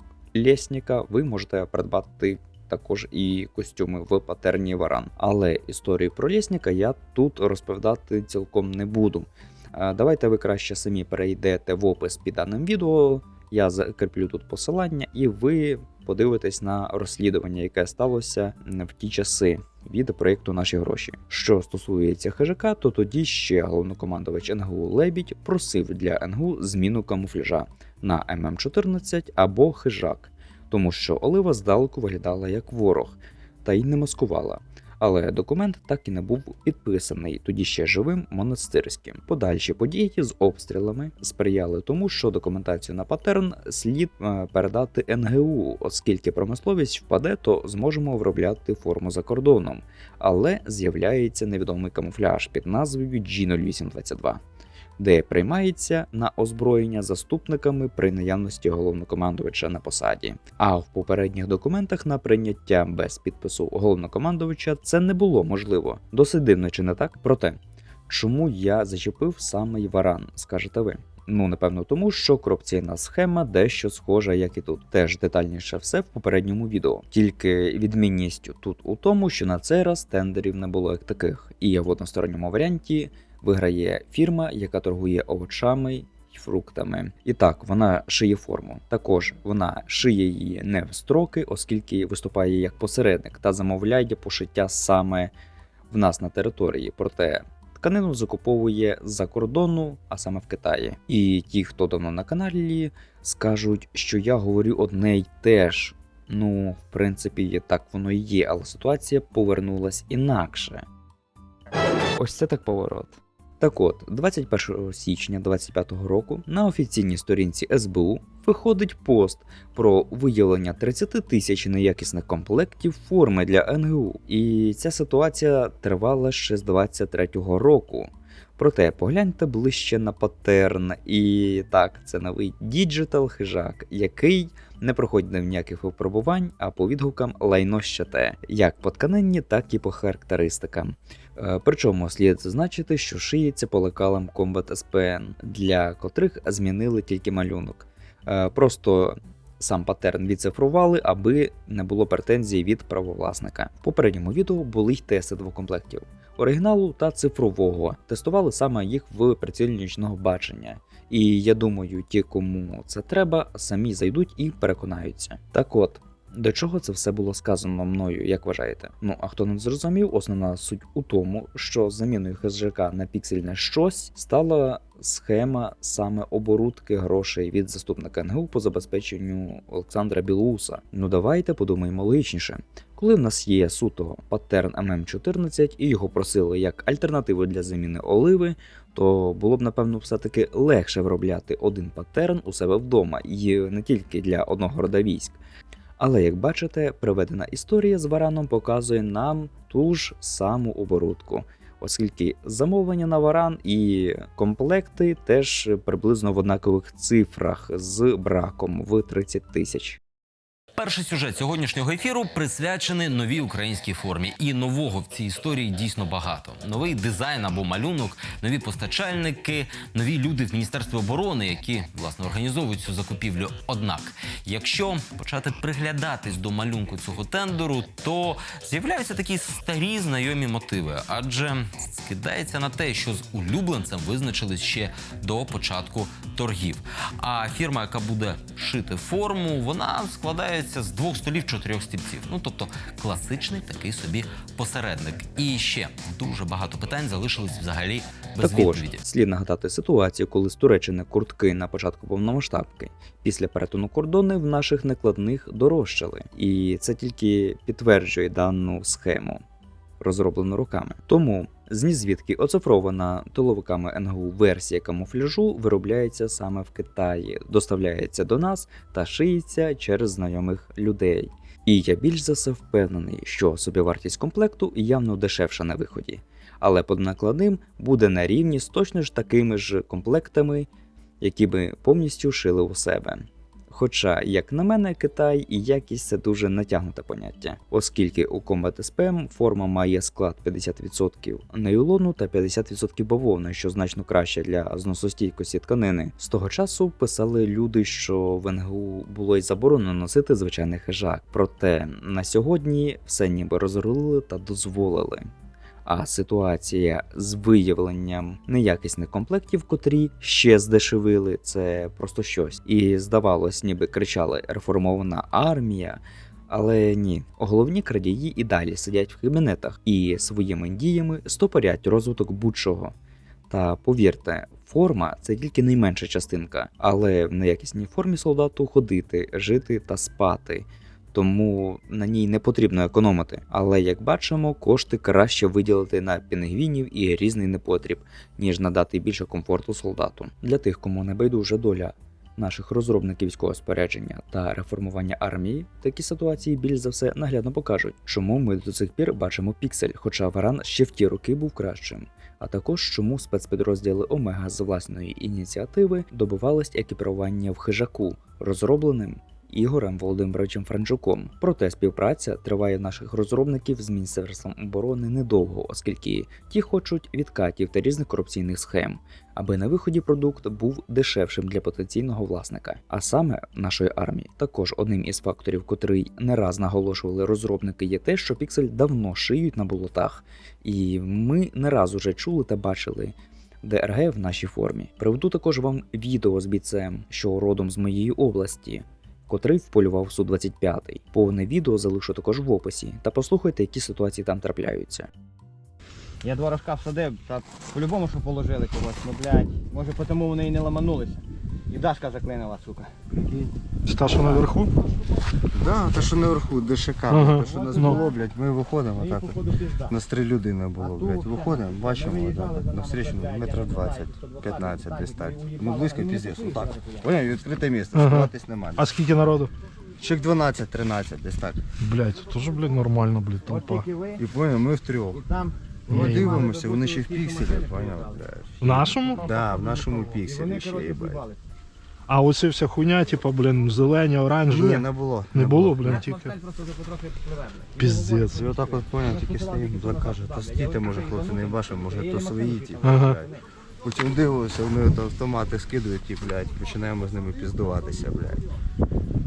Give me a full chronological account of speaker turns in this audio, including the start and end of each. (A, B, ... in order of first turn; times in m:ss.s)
0:00.3-0:54.4 A
0:55.0-1:35.3 A
1:35.9-1:50.8 A
1:52.2-3:15.4 A
3:16.0-3:30.0 A
3:30.8-4:09.0 B
4:08.4-4:19.4 A
4:20.0-4:40.7 A
4:41.2-5:05.3 A
5:05.8-5:22.9 A
5:23.5-6:35.1 A
6:36.2-6:43.0 C
6:43.1-6:43.5 D
6:43.9-6:44.7 E
6:45.5-6:58.9 D
6:47.1-6:48.0 E
6:47.5-6:48.0 C
6:49.0-6:49.9 C
6:50.8-6:57.0 C
6:58.0-6:59.5 E
7:00.0-7:01.6 D
7:01.8-7:03.9 E
7:03.5-7:04.2 C
7:04.2-7:05.3 D
7:05.2-7:08.2 C
7:05.9-7:06.4 E
7:05.9-7:11.2 D
7:08.6-7:09.2 E
7:10.2-7:11.4 C
7:12.1-7:14.8 E
7:14.5-7:16.0 D
7:15.3-7:16.3 E
7:15.9-7:23.4 C
7:17.8-7:18.4 E
7:18.3-7:23.3 D
7:22.8-7:23.2 E
7:23.8-7:28.4 D